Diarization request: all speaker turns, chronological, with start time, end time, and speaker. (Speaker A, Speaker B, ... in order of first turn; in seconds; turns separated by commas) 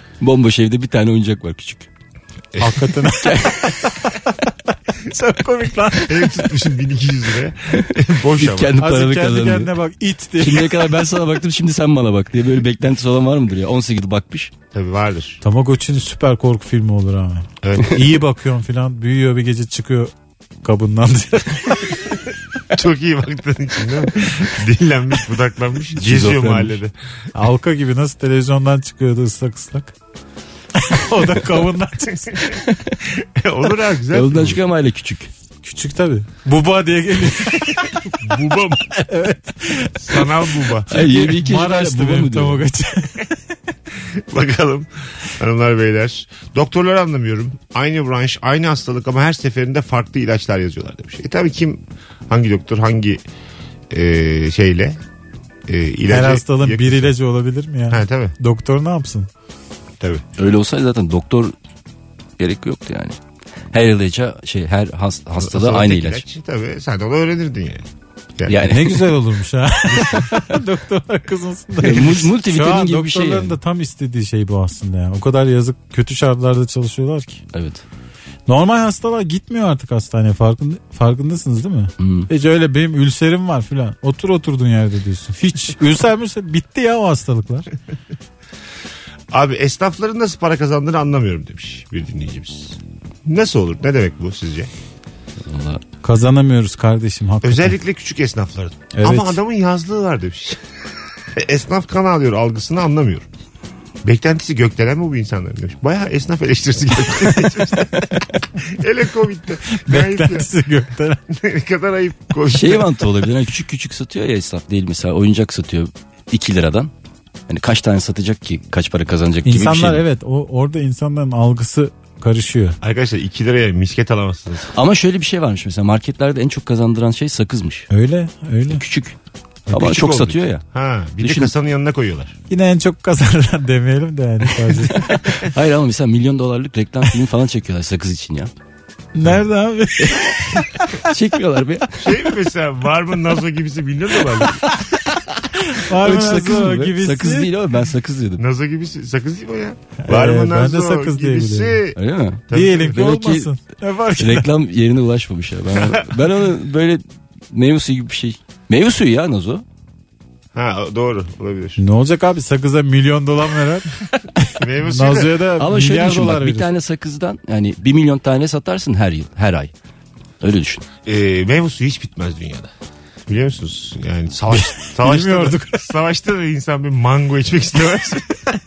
Speaker A: 0.2-1.9, Speaker B: 2.5-2.9, Speaker C: 2.6-4.5, Speaker A: 3.2-3.9, Speaker C: 5.0-6.5, Speaker B: 6.0-8.7, Speaker A: 7.7-9.7, Speaker C: 8.8-10.8, Speaker A: 10.4-14.5, Speaker B: 14.7-15.4, Speaker C: 15.4-20.1, Speaker B: 17.6-18.0, Speaker C: 20.6-22.0, Speaker B: 22.7-26.9, Speaker A: 25.9-26.8, Speaker C: 27.3-29.9, Speaker C: 30.7-32.4, Speaker A: 32.5-33.0, Speaker B: 33.1-34.6, Speaker A: 34.1-35.3, Speaker C: 35.6-38.2, Speaker B: 37.8-38.9, Speaker C: 38.9-43.3, Speaker B: 40.0-40.9, Speaker A: 40.9-42.6, Speaker B: 44.0-53.2, Speaker B: 53.9-55.0, Speaker B: 55.7-57.1, Speaker C: 56.1-59.3, Speaker B: 57.9-58.3, Speaker A: 60.4-61.5, Speaker A: 62.4-63.2, Speaker A: 63.7-66.2, Speaker B: 65.4-67.8, Speaker B: 68.4-68.7, Speaker A: 68.5-69.1, Speaker C: 68.6-77.4, Speaker B: 69.9-70.2, Speaker A: 71.8-73.6, Speaker A: 77.5-77.8, Speaker C: 78.5-87.7, Speaker A: 82.0-82.3, Speaker B: 89.3-94.7, Speaker A: 95.5-95.8, Speaker C: 96.0-97.8, Speaker B: 97.4-100.6, Speaker C: 98.9-99.4, Speaker B: 101.3-103.3, Speaker B: 104.0-110.5, Speaker C: 109.7-111.2, Speaker B: 111.3-113.0, Speaker A: 112.5-116.9, Speaker A: 117.5-120.0, Speaker C: 119.4-122.8, Speaker B: 122.8-124.7, Speaker A: 124.7-127.9, Speaker C: 127.9-128.8, Speaker A: 128.7-129.1, Speaker B: 129.7-132.3, Speaker A: 129.7-130.6, Speaker A: 131.2-131.5, Speaker C: 132.5-135.4, Speaker A: 134.7-138.5, Speaker C: 139.1-141.1, Speaker A: 140.0-142.2, Speaker B: 142.0-144.6, Speaker C: 144.7-147.5, Speaker A: 145.8-148.4, Speaker B: 148.4-153.0, Speaker C: 150.0-151.8, Speaker A: 151.9-153.5, Speaker C: 152.5-154.5, Speaker A: 154.2-159.6, Speaker B: 155.8-156.1, Speaker B: 160.5-161.8, Speaker C: 161.8-166.7, Speaker B: 164.6-165.4, Speaker A: 165.6-169.7, Speaker A: 170.4-170.8, Speaker B: 171.0-172.7, Speaker B: 173.3-178.5, Speaker C: 174.5-175.8